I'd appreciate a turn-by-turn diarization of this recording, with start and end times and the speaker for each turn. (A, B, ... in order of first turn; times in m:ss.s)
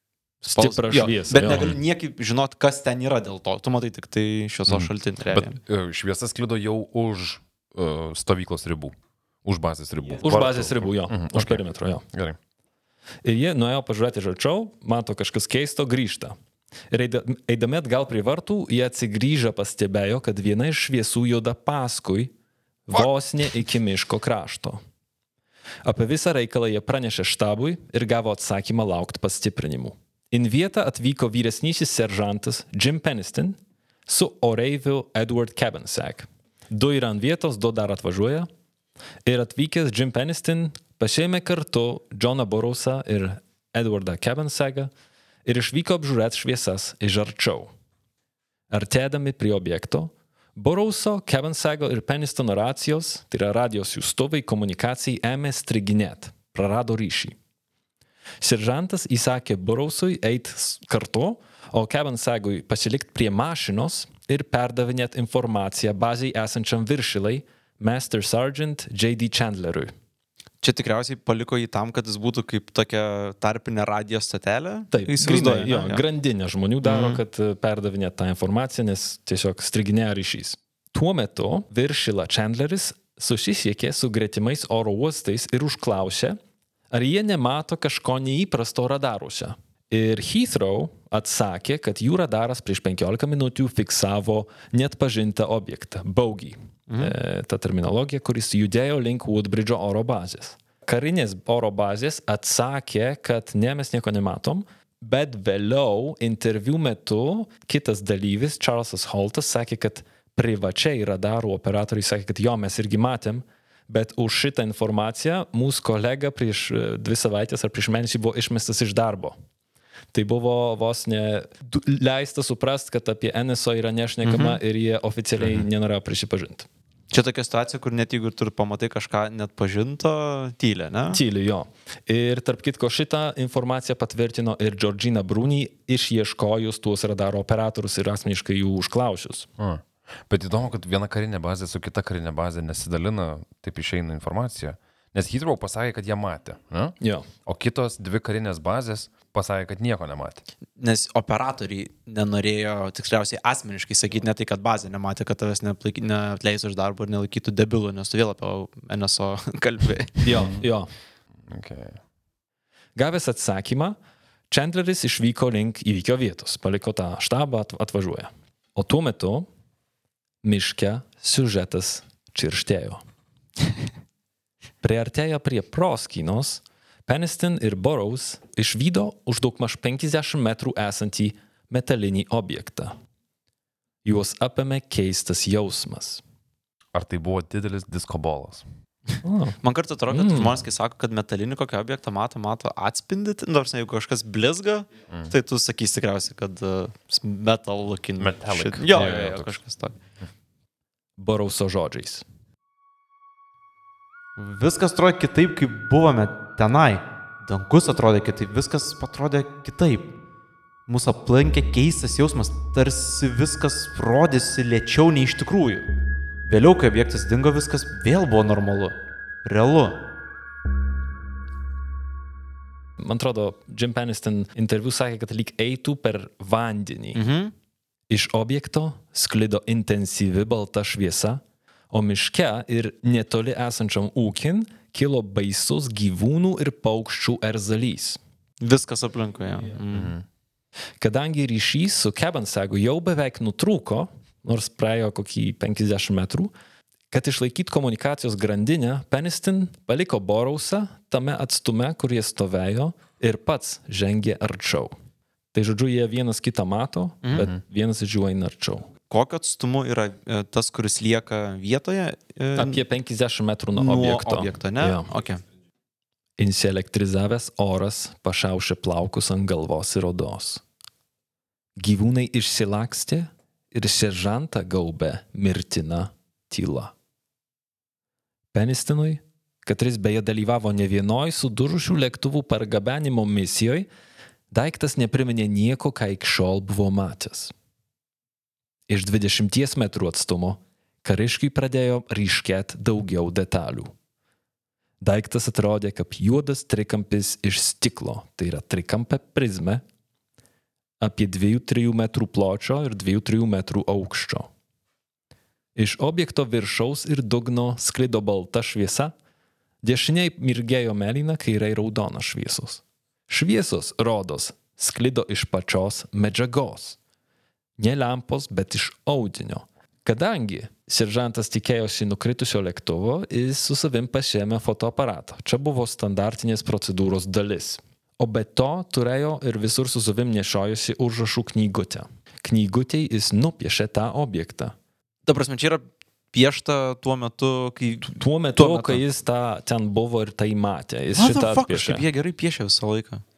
0:00.4-0:01.7 A
0:00.5-0:05.6 B
0:01.4-0:01.8 C
0:04.7-0:12.4 C
0:10.2-0:12.0 A
0:13.2-0:16.3 A
0:16.9-0:22.3 A
0:22.9-0:24.8 A
0:25.8-0:38.5 A
0:39.2-0:44.9 A
0:45.4-0:47.7 A
0:48.7-0:57.3 A
0:58.4-1:09.9 A
1:10.6-1:16.0 B
1:14.9-1:26.4 A
1:16.8-1:17.2 B
1:26.9-1:59.4 A
1:36.9-1:37.1 B
2:00.1-2:06.7 A
2:04.2-2:04.6 B
2:05.4-2:05.6 C
2:07.1-2:11.2 B
2:11.1-2:19.5 A
2:19.6-2:30.4 C
2:27.0-2:27.2 A
2:30.8-2:40.3 B
2:40.2-2:40.9 A
2:41.5-2:42.0 C
2:43.0-2:44.0 A
2:44.5-2:49.5 A
2:50.4-2:53.0 A
2:54.8-3:02.9 A
3:04.0-3:06.2 A
3:06.9-3:08.6 C
3:09.2-3:09.6 A
3:09.6-3:20.0 B
3:10.1-3:10.5 A
3:18.2-3:19.6 C
3:21.2-3:22.2 A
3:24.4-3:30.1 B
3:30.9-3:35.9 B
3:36.4-3:40.0 B
3:43.0-3:47.2 A
3:47.1-3:47.5 B
3:48.1-3:58.2 A
3:58.6-4:00.1 B
3:59.9-4:00.2 C
4:01.0-4:06.5 A
4:07.1-4:14.9 A
4:15.5-4:18.9 A
4:17.2-4:17.5 B
4:19.1-4:22.8 B
4:22.6-4:25.1 A
4:23.8-4:25.4 B
4:26.4-4:30.6 A
4:31.8-4:36.9 A
4:38.5-4:43.9 A
4:44.5-4:47.5 A
4:48.9-4:53.9 A
4:55.0-4:59.8 A
5:01.0-5:04.5 A
5:05.8-5:09.1 A
5:09.8-5:17.0 A
5:17.8-5:34.7 A
5:35.2-5:39.0 B
5:38.0-5:42.0 A
5:41.1-5:43.2 B